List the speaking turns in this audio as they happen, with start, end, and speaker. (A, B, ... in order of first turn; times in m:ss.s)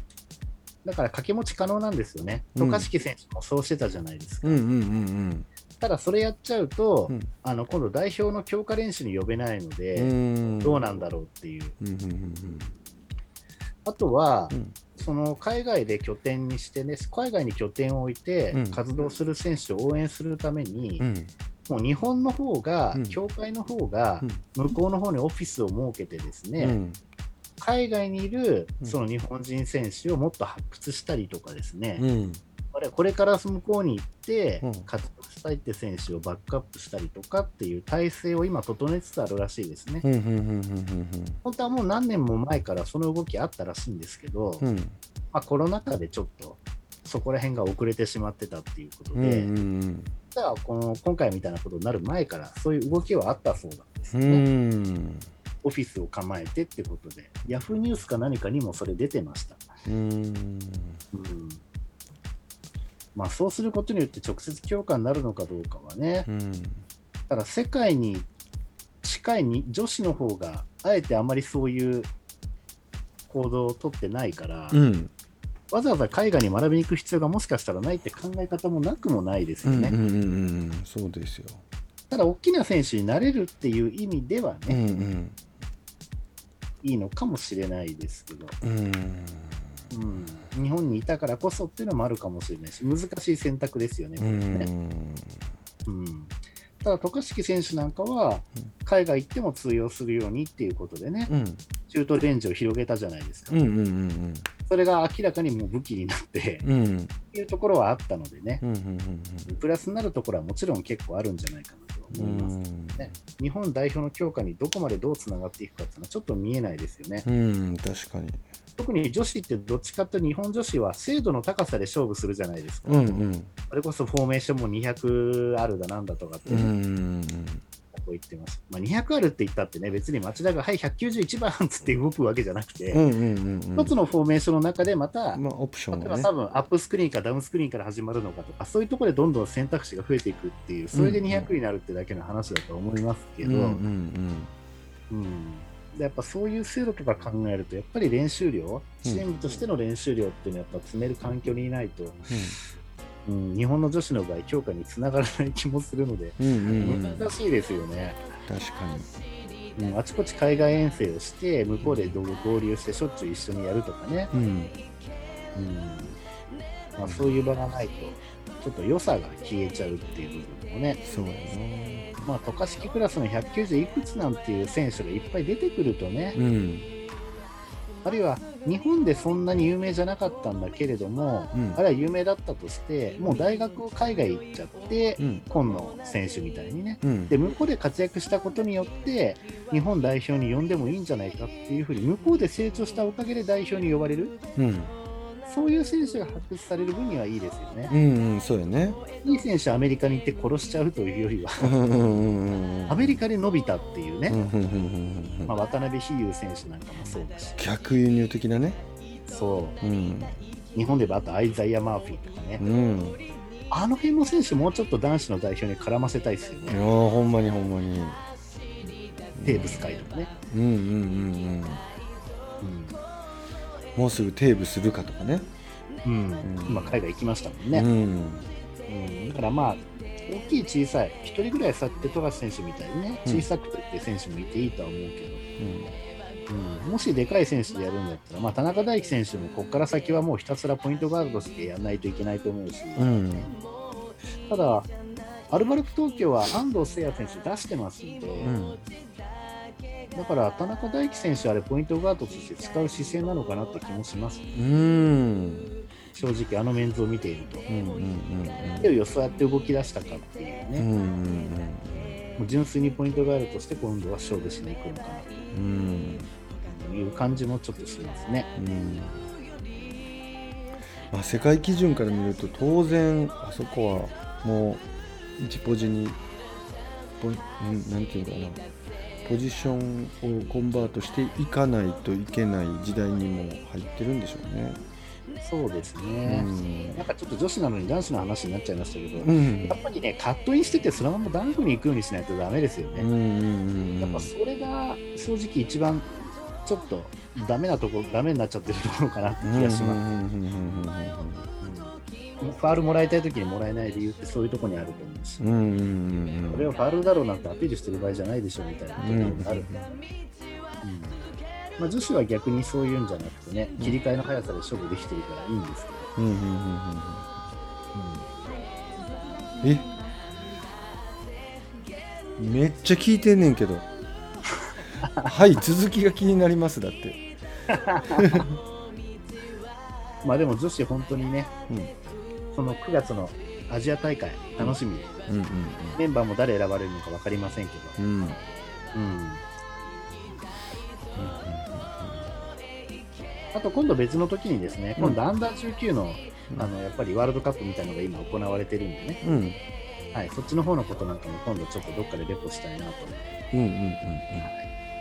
0:00.8-0:04.6 A
0:02.6-0:02.9 B
0:04.4-0:05.5 B
0:05.8-0:11.8 A
0:10.0-0:10.9 B
0:11.8-0:12.7 B
0:13.8-0:21.0 A
0:14.5-0:14.8 B
0:18.5-0:18.8 B
0:21.0-0:21.3 B
0:21.7-0:26.8 A
0:26.6-0:27.0 B
0:27.6-0:32.0 A
0:32.0-0:32.4 B
0:32.7-0:40.0 A
0:34.6-0:34.9 B
0:40.0-0:41.4 B
0:41.4-0:44.6 A
0:44.6-0:45.0 B
0:45.3-0:49.5 A
0:49.1-0:50.1 B
0:50.3-0:54.4 A
0:54.1-0:55.3 B
0:55.6-0:59.6 A
0:59.8-1:01.0 B
1:01.1-1:01.6 A
1:03.1-1:06.3 A
1:06.3-1:06.8 B
1:07.3-1:08.3 A
1:09.0-1:12.1 A
1:13.3-1:14.8 A
1:14.7-1:15.1 B
1:15.7-1:20.0 A
1:19.6-1:21.6 B
1:22.1-1:24.8 A
1:24.7-1:25.4 B
1:26.8-1:28.6 A
1:28.6-1:29.7 B
1:29.9-1:34.7 A
1:34.2-1:35.4 B
1:35.8-1:41.3 A
1:41.3-1:41.6 B
1:41.9-1:43.6 A
1:43.5-1:44.5 B
1:44.7-1:46.7 A
1:46.6-1:47.1 B
1:47.3-1:48.6 A
1:48.6-1:49.5 B
1:49.4-1:57.2 A
1:52.1-1:53.1 B
1:57.2-1:58.4 B
1:58.8-2:06.7 A
2:02.8-2:03.5 B
2:06.5-2:07.6 B
2:07.9-2:13.0 A
2:12.9-2:13.9 B
2:13.7-2:23.8 A
2:15.3-2:16.3 B
2:20.9-2:21.5 B
2:23.4-2:24.5 B
2:25.1-2:32.3 A
2:32.3-2:32.6 B
2:33.2-2:38.2 A
2:36.4-2:37.3 B
2:38.5-2:39.1 B
2:39.8-2:44.3 A
2:41.8-2:42.2 B
2:44.3-2:44.8 B
2:45.5-2:46.2 A
2:47.0-2:51.0 A
2:47.0-2:47.3 B
2:51.0-2:52.3 B
2:52.2-2:56.4 A
2:56.3-2:56.9 B
2:58.0-3:14.3 A
3:01.5-3:01.8 B
3:05.2-3:05.4 B
3:07.0-3:07.3 B
3:14.6-3:14.9 B
3:15.4-3:17.9 A
3:17.9-3:19.0 B
3:19.2-3:21.7 A
3:21.6-3:23.2 B
3:22.9-3:24.5 A
3:24.3-3:25.5 B
3:25.5-3:27.6 A
3:27.6-3:28.8 B
3:29.3-3:29.8 A
3:29.8-3:30.4 B
3:30.7-3:32.6 A
3:32.6-3:33.2 B
3:33.7-3:36.8 A
3:36.7-3:38.2 B
3:39.4-3:41.8 B
3:39.4-3:40.3 A
3:42.6-3:43.0 A
3:43.9-3:45.5 B
3:46.0-3:47.9 A
3:46.4-3:47.0 B
3:47.7-3:48.5 B
3:48.9-3:55.4 A
3:55.6-3:55.9 B
3:56.5-4:03.1 A
4:03.0-4:03.5 B
4:04.5-4:04.9 A
4:05.5-4:08.5 A
4:08.4-4:08.8 B
4:10.1-4:14.5 A
4:14.5-4:15.7 B
4:16.1-4:17.6 A
4:17.7-4:18.9 B
4:18.8-4:20.9 A
4:20.8-4:22.2 B
4:22.4-4:25.3 A
4:25.5-4:26.3 B
4:26.6-4:28.5 A
4:28.6-4:29.2 B
4:31.1-4:34.8 B
4:35.4-4:36.2 B
4:37.2-4:38.6 B
4:39.2-4:44.8 B
4:45.4-4:53.1 A
4:46.2-4:47.0 B
4:49.2-4:49.8 B
4:53.0-4:54.3 B
4:54.0-4:56.1 A
4:56.6-5:00.0 A
4:59.4-5:01.5 B
5:01.6-5:05.5 A
5:05.4-5:06.7 B
5:06.5-5:09.7 A
5:09.0-5:09.9 B
5:10.8-5:11.2 A
5:11.8-5:16.1 A
5:16.2-5:17.4 B
5:17.9-5:18.2 A
5:18.4-5:20.9 C
5:22.4-5:23.9 B
5:25.0-5:25.3 A
5:25.2-5:27.2 B
5:27.7-5:28.4 A
5:27.9-5:28.6 B
5:30.2-5:31.5 A
5:31.7-5:31.9 B
5:32.5-5:35.2 A
5:34.6-5:36.0 B
5:35.9-5:38.0 A
5:38.0-5:38.4 B
5:38.9-5:39.4 A
5:41.1-5:42.3 B
5:43.5-5:49.2 A
5:49.2-5:49.6 B
5:50.1-5:53.3 A
5:53.5-5:54.5 B
5:54.4-5:54.7 A